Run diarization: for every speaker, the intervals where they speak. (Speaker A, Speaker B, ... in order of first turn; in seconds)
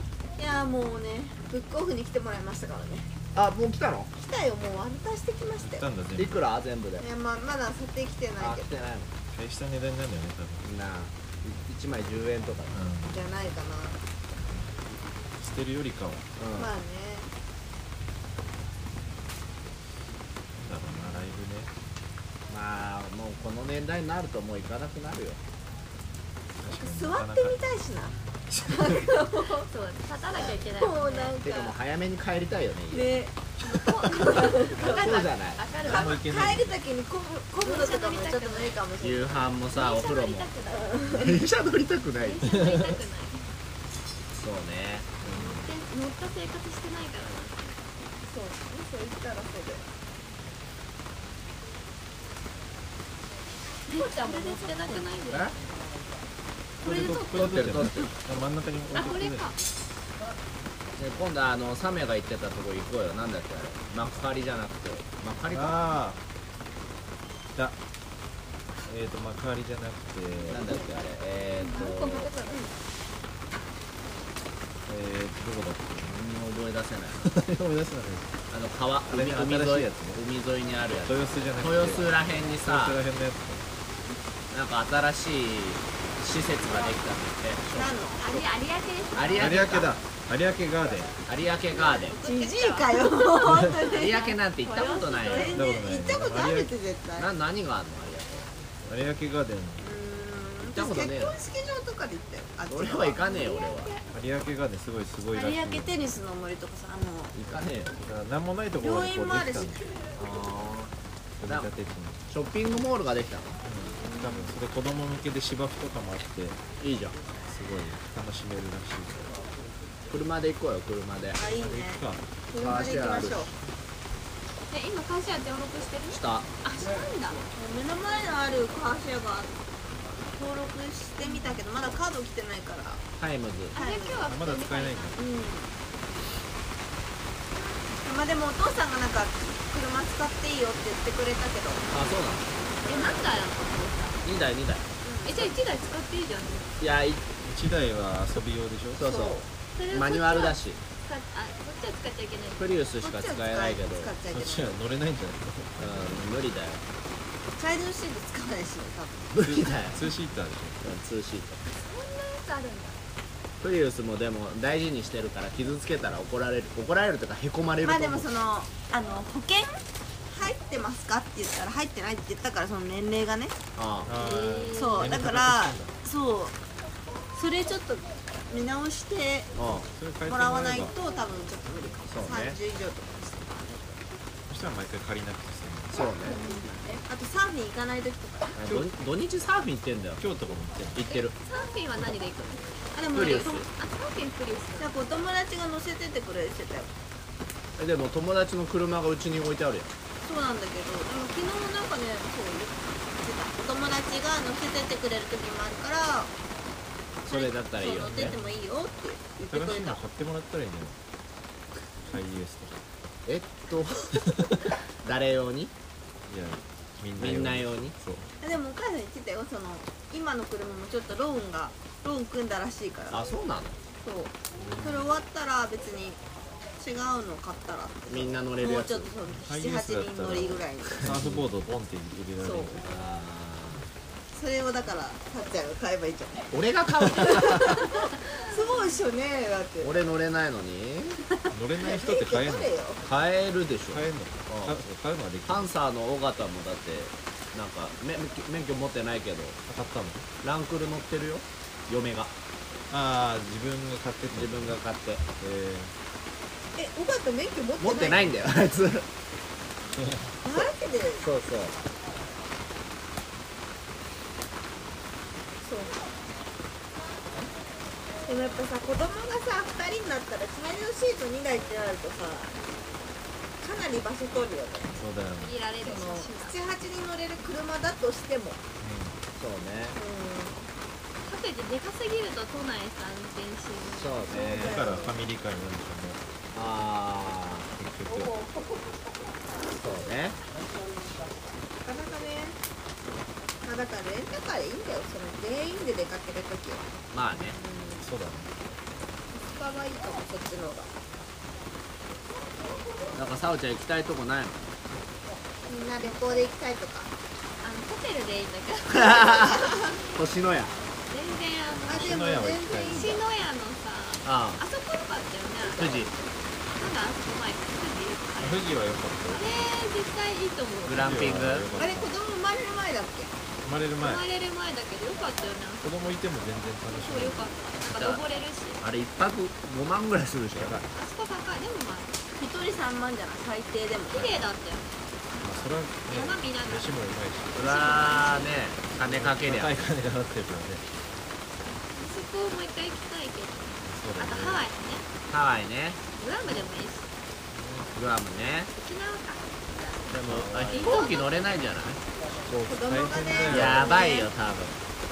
Speaker A: 0.4-3.1, 4.1-5.8, 7.0-8.7, 13.1-14.0, 16.6-17.3, 26.8-29.7, 30.3-31.7, 32.9-35.3, 35.8-39.5, 40.7-41.4, 48.2-49.8, 54.0-55.1, 87.7-88.2, 92.2-94.2, 95.3-97.3, 99.8-103.8, 105.3-107.3, 108.8-110.1, 114.0-114.5, 121.3-123.5, 127.5-129.5, 130.3-133.0, 133.7-134.2, 135.2-135.7, 137.9-141.9, 142.8-143.2, 145.0-145.6, 149.0-149.5, 153.0-154.8, 157.6-159.8, 167.8-173.6, 174.7-176.6, 177.3-179.5, 180.2-184.0, 185.9-188.6, 192.9-193.6, 194.8-196.9, 200.2-206.3, 207.3-210.0, 218.4-223.3, 224.0-226.2, 226.8-231.1, 232.4-232.8, 234.3-236.5, 237.2-239.9, 241.3-243.0, 256.8-258.3, 260.4-261.3, 265.6-266.1, 268.2-272.6, 273.6-275.0, 275.8-278.6, 280.0-280.7, 284.3-285.2, 288.1-289.7, 291.8-292.6, 293.6-296.9, 297.5-298.1, 299.3-300.9, 305.7-307.1, 309.1-309.6, 311.9-313.2, 321.8-323.3, 332.3-334.3, 352.6-354.3
Speaker B: 3.3-4.1, 6.2-7.0, 8.4-9.1, 10.6-12.8, 16.4-16.7, 22.5-25.4, 31.4-33.1, 34.1-35.6, 39.0-40.5, 41.1-43.0, 44.3-45.1, 56.8-58.1, 61.0-65.8, 70.5-72.3, 76.0-77.3, 78.5-83.0, 84.5-88.4, 89.1-89.9, 91.2-92.2, 93.8-95.6, 97.2-98.5, 100.6-101.4, 102.7-103.9, 107.3-107.9, 110.2-110.9, 111.4-111.7, 112.3-113.6, 116.8-117.2, 120.1-121.4, 122.5-123.5, 126.1-126.5, 133.2-133.7, 141.9-142.5, 144.2-144.9, 146.8-147.2, 149.0-150.8, 152.6-154.1, 155.8-156.8, 159.3-160.0, 160.8-161.6, 163.6-168.3, 173.8-174.1, 179.6-179.9, 182.1-182.6, 185.9-186.4, 188.5-190.2, 190.9-191.3, 193.1-193.7, 197.8-199.9, 207.2-208.3, 213.2-214.2, 215.0-215.7, 217.2-217.9, 223.1-223.8, 228.1-229.1, 230.9-231.4, 232.8-233.8, 236.5-237.9, 239.8-241.2, 243.0-244.8, 245.4-249.6, 250.4-252.3, 254.3-255.2, 257.8-259.1, 260.5-261.7, 279.4-280.0, 284.0-284.9, 286.5-287.7, 289.8-290.4, 297.1-297.6, 303.1-304.6, 308.9-310.7, 314.2-314.6, 315.6-316.1, 320.8-321.7, 327.9-328.2, 328.8-330.8, 337.6-339.7, 345.3-346.0, 347.9-348.7, 350.1-352.0, 353.4-354.8
Speaker C: 5.6-6.5, 9.3-10.6, 12.7-13.2, 15.4-16.3, 20.5-21.7, 26.6-27.6, 28.5-29.1, 35.8-36.8, 45.2-45.7, 56.8-59.5, 65.5-66.2, 68.8-70.8, 74.9-76.1, 77.2-78.3, 79.1-80.2, 81.0-83.6, 89.4-91.1, 93.4-93.8, 95.5-96.7, 98.8-99.9, 104.1-106.0, 108.0-109.8, 111.4-112.2, 113.6-116.6, 117.5-119.4, 121.5-122.2, 134.2-135.2, 147.4-149.2, 154.3-156.3, 159.4-160.8, 174.0-175.9, 179.9-180.9, 184.5-186.1, 190.2-191.0, 208.0-208.6, 209.5-211.0, 212.1-212.8, 214.2-214.6, 216.3-218.3, 224.5-225.1, 229.3-232.9, 237.0-237.6, 241.5-242.7, 243.9-245.7, 249.7-250.2, 252.9-254.8, 255.4-255.9, 259.9-260.4, 274.9-275.5, 278.8-279.2, 284.4-286.2, 287.8-288.3, 298.0-298.5, 311.9-313.2, 318.4-319.5, 320.9-322.1, 323.6-324.2, 325.8-328.1, 330.5-330.9, 334.1-334.5, 335.4-337.6, 339.0-340.9, 343.8-344.6, 347.5-347.9, 350.2-351.1, 352.4-353.9
Speaker D: 29.6-31.4, 33.6-36.2, 37.6-38.8, 39.7-41.0, 42.2-43.5, 45.3-47.8, 53.9-55.5, 56.8-57.7, 58.9-59.6, 71.6-72.7, 88.2-89.7, 91.7-95.7, 103.2-104.0, 124.7-127.5, 131.2-131.5, 133.7-135.2, 142.8-144.2, 145.2-146.8, 149.8-152.8, 161.7-163.0, 174.1-175.1, 186.0-187.0, 191.1-194.9, 237.9-238.6, 275.4-276.7, 281.2-284.5, 307.6-309.3, 311.1-316.1, 316.7-318.8, 319.3-321.2, 324.0-325.9, 327.0-328.8, 330.9-332.2, 334.1-336.9, 337.5-338.5, 341.9-345.1, 346.2-347.1, 348.7-351.4, 353.5-354.3